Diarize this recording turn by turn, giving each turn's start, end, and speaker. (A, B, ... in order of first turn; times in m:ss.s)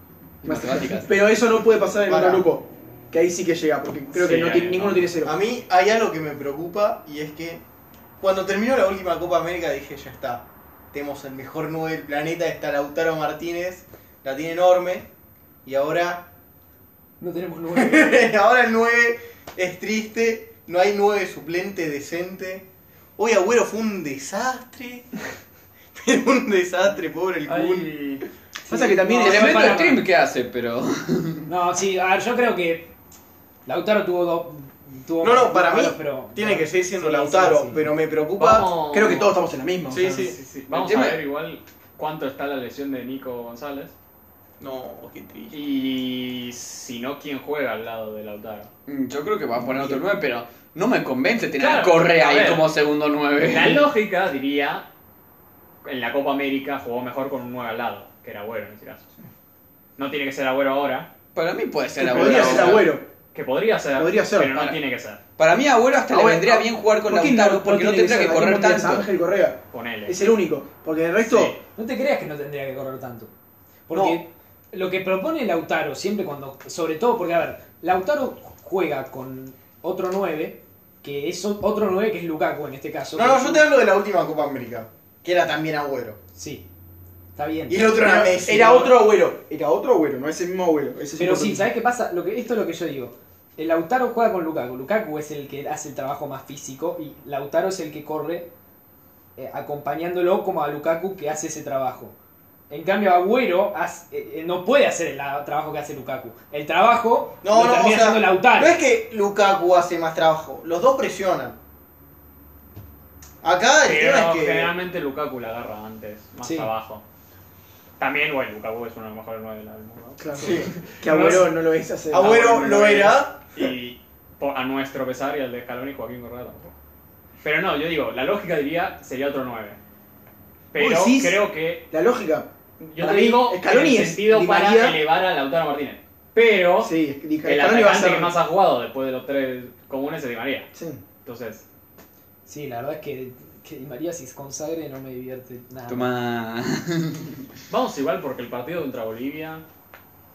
0:00.4-0:01.1 A
0:00.4-0:05.3 B
0:02.1-0:02.5 C
0:04.1-0:05.1 D
0:05.2-0:07.6 C
0:08.2-0:15.1 C
0:15.6-0:16.3 C
0:17.2-0:18.4 E
0:17.7-0:22.7 C
0:23.2-0:25.1 C
0:26.0-0:28.1 C
0:27.4-0:28.2 D
0:28.6-0:30.1 E
0:28.7-0:29.9 B
0:29.2-0:31.5 A
0:31.5-0:32.9 E
0:33.7-0:37.8 E
0:35.2-0:38.7 C
0:38.4-0:39.4 D
0:38.9-0:40.3 B
0:39.9-0:40.4 C
0:40.1-0:43.9 D
0:40.7-0:41.2 A
0:44.6-0:45.6 C
0:45.5-0:48.7 D
0:48.9-0:53.9 A
0:51.6-0:52.7 D
0:53.4-0:54.9 D
0:55.8-0:59.1 D
1:00.0-1:01.1 D
1:01.4-1:03.0 A
1:02.0-1:03.0 B
1:02.2-1:02.8 D
1:03.3-1:05.2 D
1:04.0-1:04.6 B
1:05.4-1:09.1 A
1:06.1-1:11.6 B
1:09.7-1:10.3 D
1:11.2-1:11.6 D
1:11.8-1:13.3 E
1:13.9-1:23.6 E
1:13.9-1:14.2 C
1:23.2-1:26.2 C
1:26.4-1:26.6 E
1:27.4-1:27.8 E
1:27.7-1:29.1 C
1:27.8-1:31.7 B
1:31.2-1:38.5 E
1:39.4-1:42.2 E
1:42.7-1:48.8 E
1:47.4-1:51.6 C
1:53.4-1:54.7 C
1:53.8-1:57.0 D
1:56.4-1:56.7 E
1:58.0-2:01.5 D
2:00.2-2:02.8 B
2:00.4-2:00.7 C
2:02.1-2:03.4 C
2:02.2-2:06.7 D
2:07.4-2:09.8 D
2:10.7-2:11.9 D
2:10.8-2:15.0 B
2:12.8-2:20.7 D
2:16.8-2:18.4 B
2:20.7-2:21.0 B
2:21.2-2:21.6 D
2:22.5-2:26.2 E
2:25.9-2:27.4 A
2:27.7-2:29.6 D